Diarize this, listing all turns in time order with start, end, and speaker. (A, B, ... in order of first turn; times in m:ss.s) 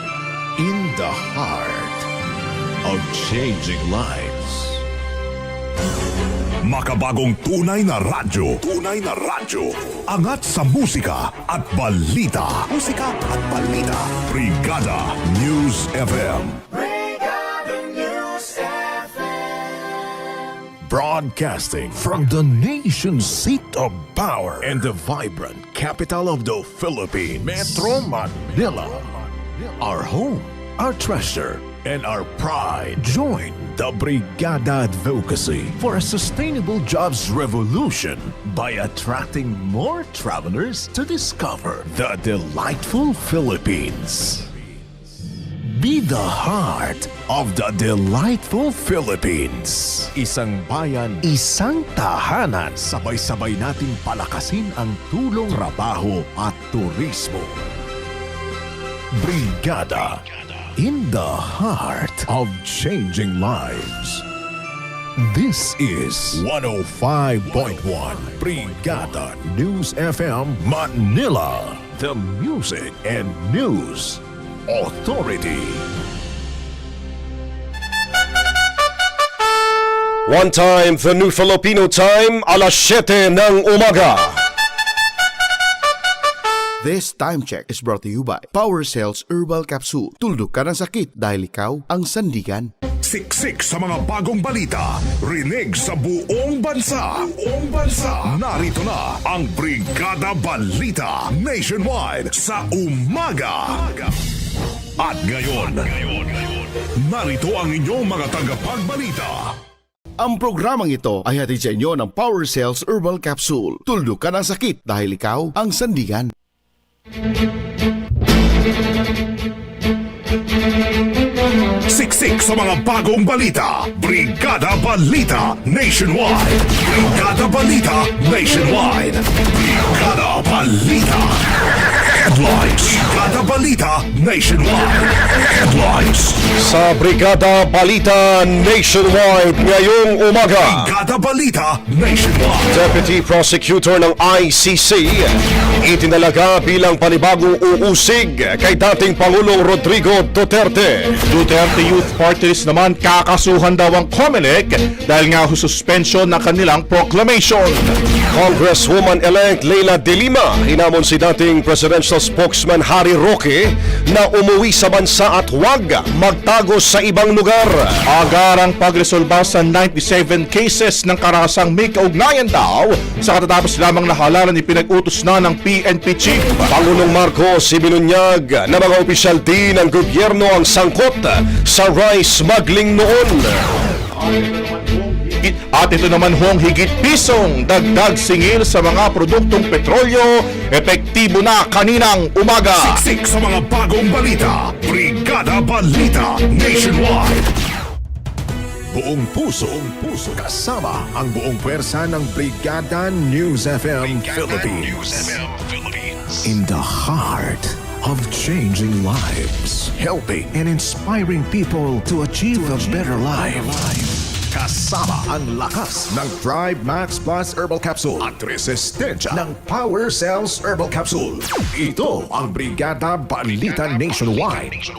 0:00.6-0:02.1 A
0:02.8-0:04.8 A
0:06.6-0:16.6 B
0:20.9-0:29.1 A
0:29.6-0:44.5 A
0:45.7-0:57.6 A
0:59.2-1:00.2 A
1:00.8-1:04.2 A
1:05.2-1:15.8 A
1:20.3-1:24.4 C
1:26.8-1:32.7 D
1:33.0-1:44.1 B
1:45.0-1:46.4 B
1:47.0-1:49.5 B
1:50.2-1:56.3 D
2:01.9-2:16.4 B
2:16.6-2:20.9 C
2:20.6-2:22.8 B
2:22.7-2:31.2 C
2:31.3-2:37.8 E
2:38.3-2:48.0 C
2:48.1-2:56.7 E
2:56.7-3:03.6 C
3:04.3-3:13.0 E
3:12.7-3:17.5 B
3:18.9-3:25.5 A
3:26.3-3:44.8 A